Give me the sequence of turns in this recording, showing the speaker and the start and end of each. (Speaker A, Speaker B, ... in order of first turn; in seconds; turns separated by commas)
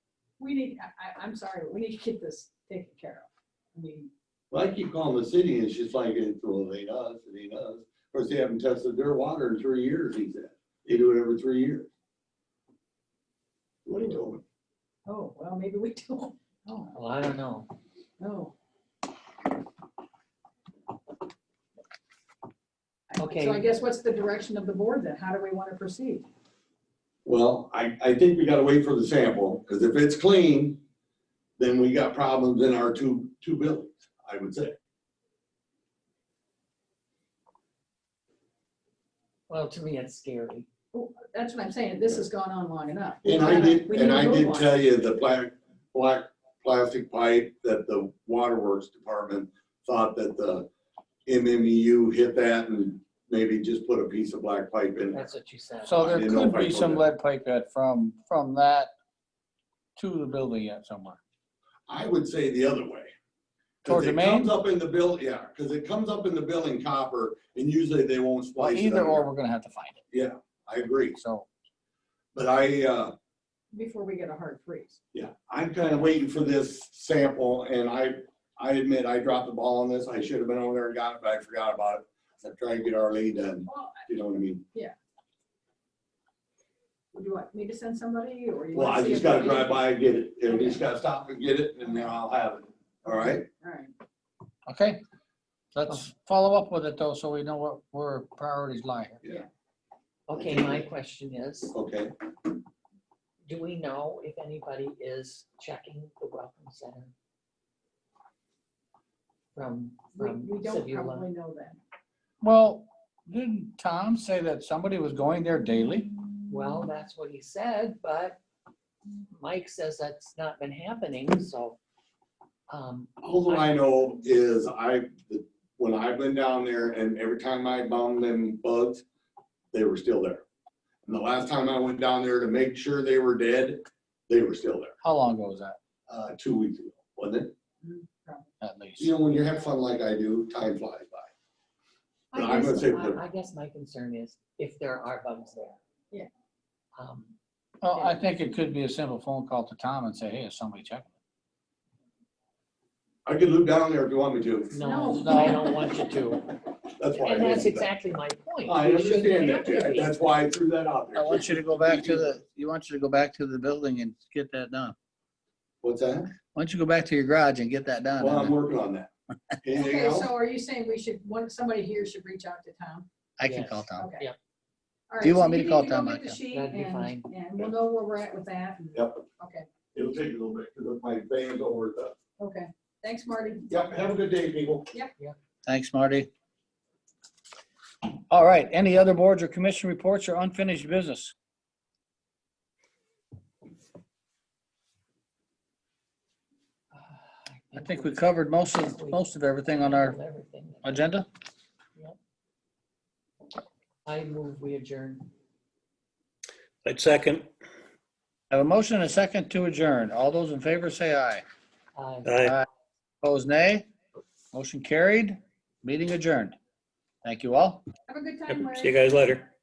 Speaker A: 0.4-4.1, Speaker B: 4.5-11.9, Speaker B: 13.8-14.4, Speaker A: 15.1-16.9, Speaker C: 16.9-17.7, Speaker A: 18.2-18.5, Speaker A: 23.1-26.2, Speaker C: 23.2-23.7, Speaker B: 27.2-30.8, Speaker B: 31.6-34.8, Speaker C: 39.5-40.7, Speaker A: 40.9-44.7, Speaker B: 43.2-50.7, Speaker B: 51.2-55.3, Speaker C: 55.1-56.1, Speaker D: 55.8-58.9, Speaker B: 56.0-57.0, Speaker D: 60.0-61.2, Speaker B: 61.9-63.1, Speaker B: 63.8-69.2, Speaker D: 63.9-64.5, Speaker D: 68.6-70.0, Speaker B: 70.1-71.2, Speaker D: 71.2-71.5, Speaker B: 72.3-73.1, Speaker A: 73.7-75.0, Speaker B: 75.1-84.6, Speaker A: 83.7-84.0, Speaker A: 87.1-89.8, Speaker B: 88.7-93.5, Speaker A: 90.5-90.8, Speaker A: 93.1-93.9, Speaker D: 94.7-95.0, Speaker D: 95.7-99.2, Speaker C: 100.3-101.7, Speaker B: 100.3-100.9, Speaker B: 101.7-102.1, Speaker C: 103.5-107.1, Speaker C: 109.5-111.3, Speaker A: 110.1-111.8, Speaker D: 112.4-116.1, Speaker C: 116.5-118.4, Speaker C: 119.3-121.8, Speaker C: 122.7-123.8, Speaker B: 123.2-129.0, Speaker B: 129.7-130.4, Speaker B: 131.1-134.9, Speaker D: 135.0-135.8, Speaker B: 136.1-137.5, Speaker A: 137.8-138.5, Speaker D: 138.6-139.1, Speaker B: 139.0-141.3, Speaker A: 139.3-139.7, Speaker C: 142.3-145.8, Speaker B: 142.3-143.2, Speaker C: 146.9-147.3, Speaker D: 147.8-151.1, Speaker C: 147.9-148.2, Speaker B: 153.2-154.7, Speaker C: 154.7-156.5, Speaker A: 154.8-155.6, Speaker D: 155.1-155.6, Speaker B: 157.0-157.9, Speaker C: 157.1-160.3, Speaker B: 158.7-162.3, Speaker D: 161.1-164.9, Speaker B: 165.8-166.3, Speaker D: 166.5-168.5, Speaker B: 168.2-169.1, Speaker B: 169.6-170.3, Speaker A: 169.7-173.1, Speaker D: 173.4-174.1, Speaker C: 173.4-174.4, Speaker A: 173.9-174.3, Speaker A: 175.1-179.7, Speaker D: 175.2-176.4, Speaker C: 176.5-177.3, Speaker B: 178.9-179.2, Speaker B: 179.9-182.1, Speaker A: 182.4-183.7, Speaker B: 183.7-184.9, Speaker D: 185.7-186.3, Speaker D: 188.3-191.3, Speaker C: 196.9-201.1, Speaker D: 197.7-200.2, Speaker D: 200.8-201.3, Speaker C: 204.0-205.3, Speaker E: 206.8-207.5, Speaker D: 208.5-211.4, Speaker C: 211.9-212.3, Speaker E: 212.2-212.5, Speaker D: 212.4-212.7, Speaker D: 213.2-213.9, Speaker D: 214.5-216.6, Speaker D: 217.2-217.8, Speaker A: 218.1-219.1, Speaker E: 218.5-219.5